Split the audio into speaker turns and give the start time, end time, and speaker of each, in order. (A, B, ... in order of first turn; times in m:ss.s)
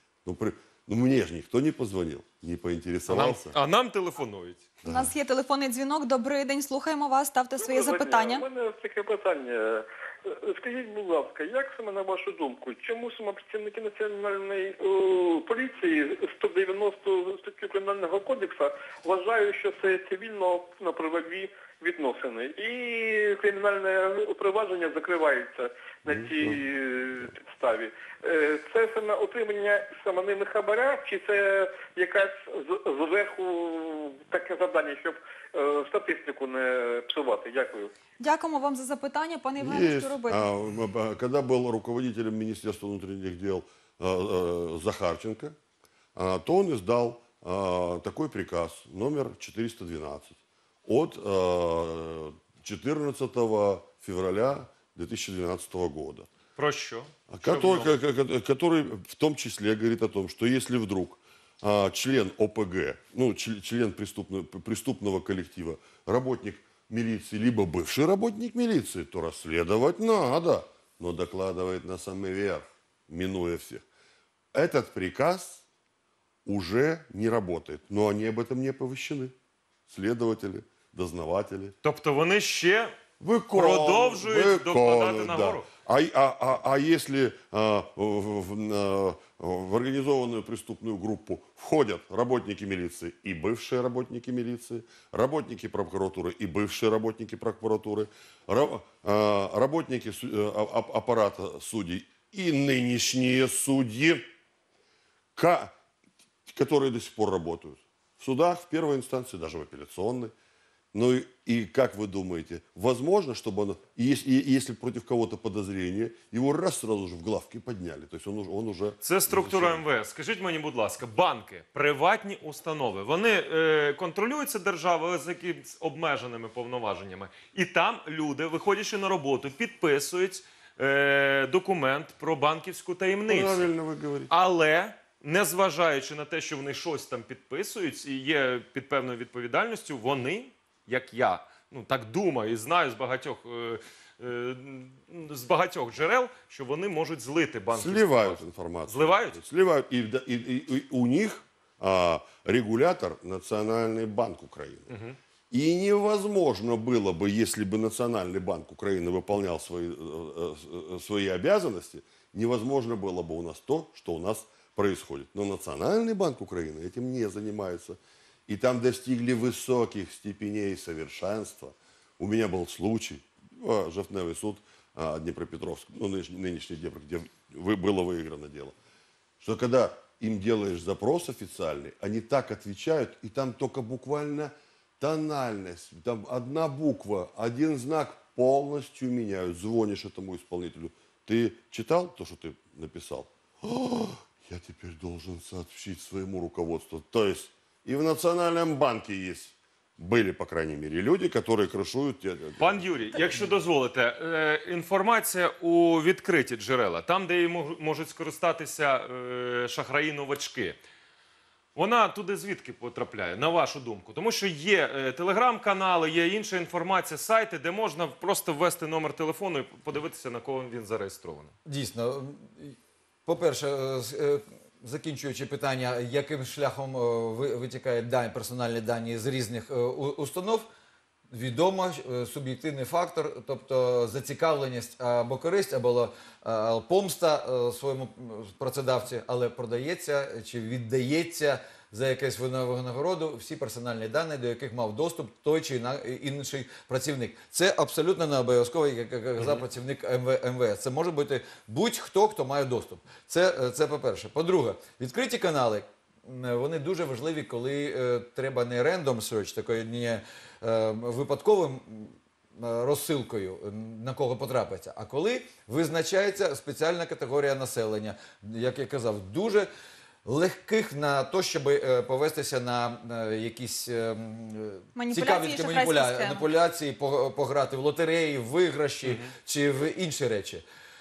0:00.2-0:03.6 A
0:03.1-0:04.6 B
0:04.8-0:05.1 A
0:04.9-0:08.4 C
0:07.6-0:37.9 D
0:26.2-0:26.6 A
0:38.2-0:40.4 C
0:39.6-0:45.6 A
0:46.2-0:56.3 A
0:56.6-0:58.0 B
0:57.3-1:13.8 A
1:14.5-1:15.6 A
1:16.5-1:19.3 A
1:19.9-1:21.8 A
1:21.8-1:23.0 B
1:23.2-1:44.2 A
1:23.5-1:25.7 B
1:45.4-1:45.7 A
1:46.5-1:50.3 A
1:50.9-1:59.8 A
1:59.0-2:13.7 B
2:13.3-2:14.3 A
2:14.3-2:29.4 B
2:27.7-2:34.9 A
2:34.9-2:35.2 B
2:35.5-2:58.7 A
2:59.4-3:23.5 A
3:22.6-3:30.8 B
3:31.8-3:41.5 B
3:41.7-3:50.7 E
3:51.3-4:29.7 E
4:30.2-4:40.6 E
4:35.0-4:36.5 C